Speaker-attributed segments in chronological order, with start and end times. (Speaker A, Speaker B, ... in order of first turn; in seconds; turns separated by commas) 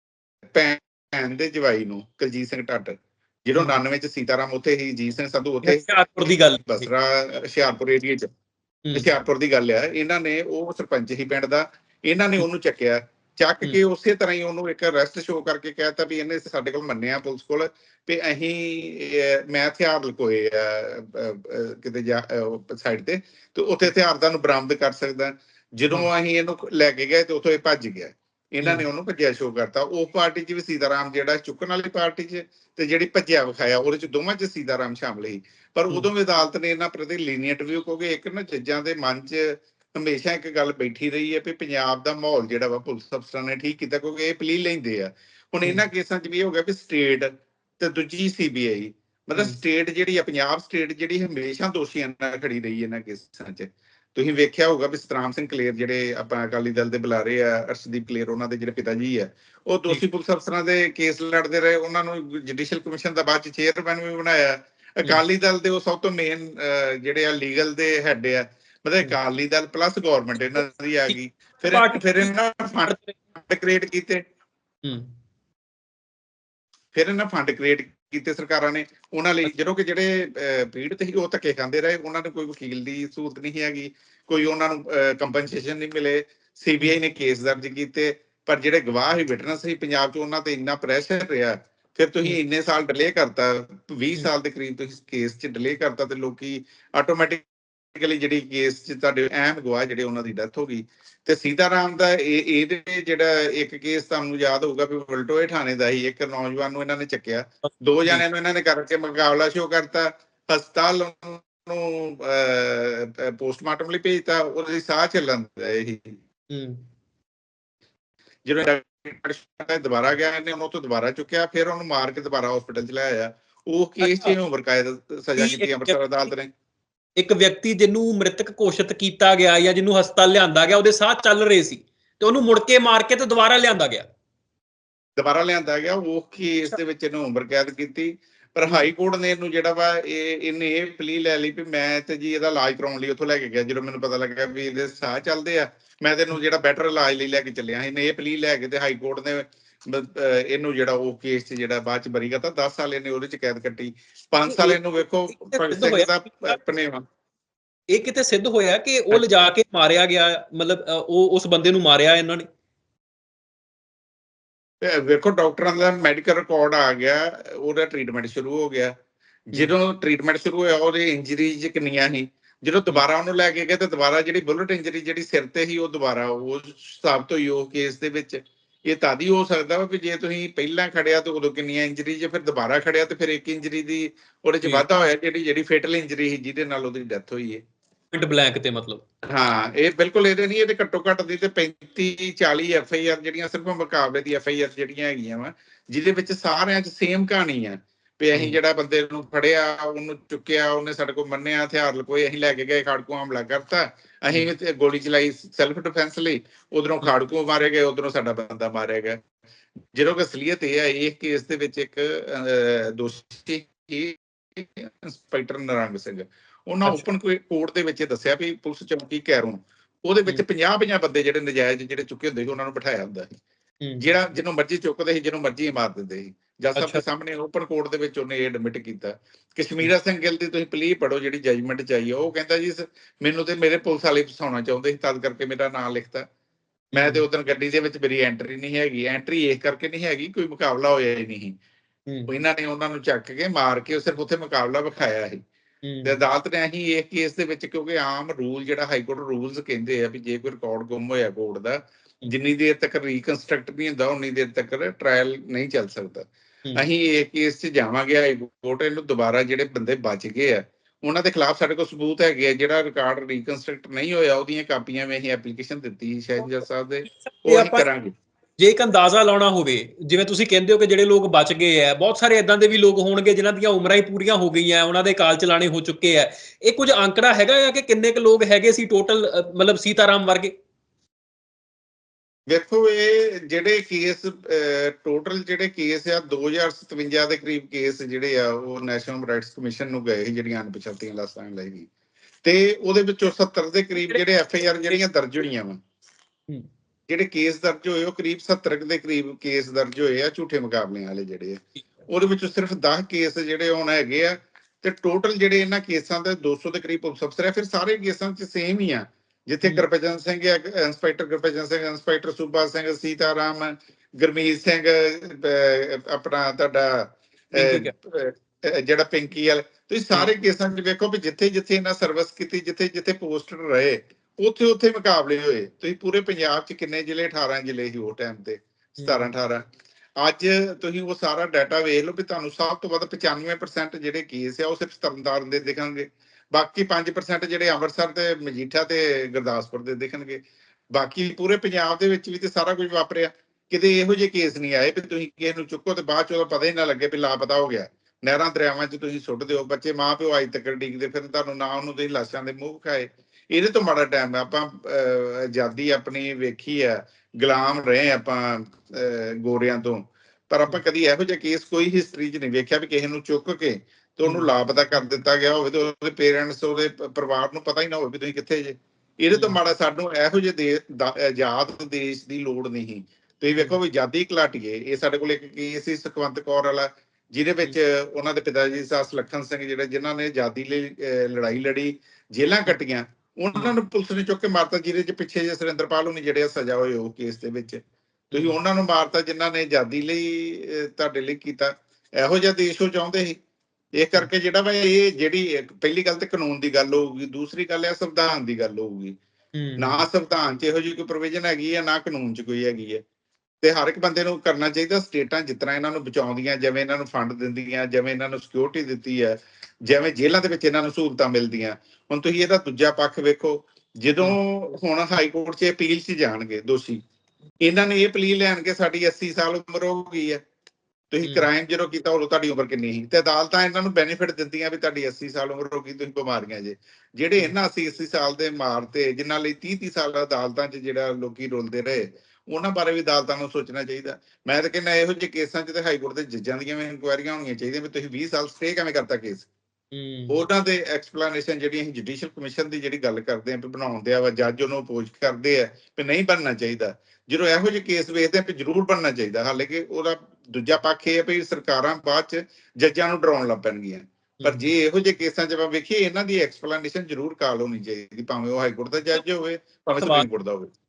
Speaker A: 0.5-5.8, Speaker B: 5.6-6.9, Speaker A: 6.7-8.3, Speaker A: 8.9-74.2, Speaker B: 71.7-72.3, Speaker B: 72.8-73.1, Speaker B: 74.8-75.1, Speaker A: 76.9-116.2, Speaker B: 116.5-116.8, Speaker A: 118.4-126.5, Speaker B: 124.0-124.4, Speaker B: 125.4-126.0, Speaker B: 127.2-134.1, Speaker A: 135.2-157.0, Speaker B: 138.7-138.9, Speaker B: 154.4-156.6, Speaker B: 157.9-162.4, Speaker A: 164.8-168.9, Speaker A: 169.5-187.6, Speaker B: 184.6-185.0, Speaker B: 188.1-189.0, Speaker A: 189.3-209.2, Speaker A: 209.9-223.4, Speaker A: 224.0-236.2, Speaker B: 226.8-227.0, Speaker A: 236.9-241.6, Speaker B: 236.9-237.2, Speaker A: 242.3-245.4, Speaker B: 245.8-246.2, Speaker A: 246.0-268.1, Speaker B: 267.2-267.9, Speaker B: 268.6-280.5, Speaker A: 282.5-291.9, Speaker A: 292.4-295.8, Speaker A: 297.1-329.6, Speaker B: 317.5-317.9, Speaker B: 329.0-329.3, Speaker A: 330.2-340.4, Speaker A: 340.9-387.8, Speaker B: 364.2-364.5, Speaker B: 388.3-388.6, Speaker A: 388.3-393.4, Speaker A: 394.0-399.2, Speaker B: 399.6-400.1, Speaker A: 399.8-403.0, Speaker A: 403.6-417.0, Speaker A: 417.6-420.4, Speaker A: 421.1-439.5, Speaker B: 421.2-421.5, Speaker B: 439.9-440.4, Speaker A: 440.3-460.7, Speaker B: 454.4-454.7, Speaker B: 460.0-460.3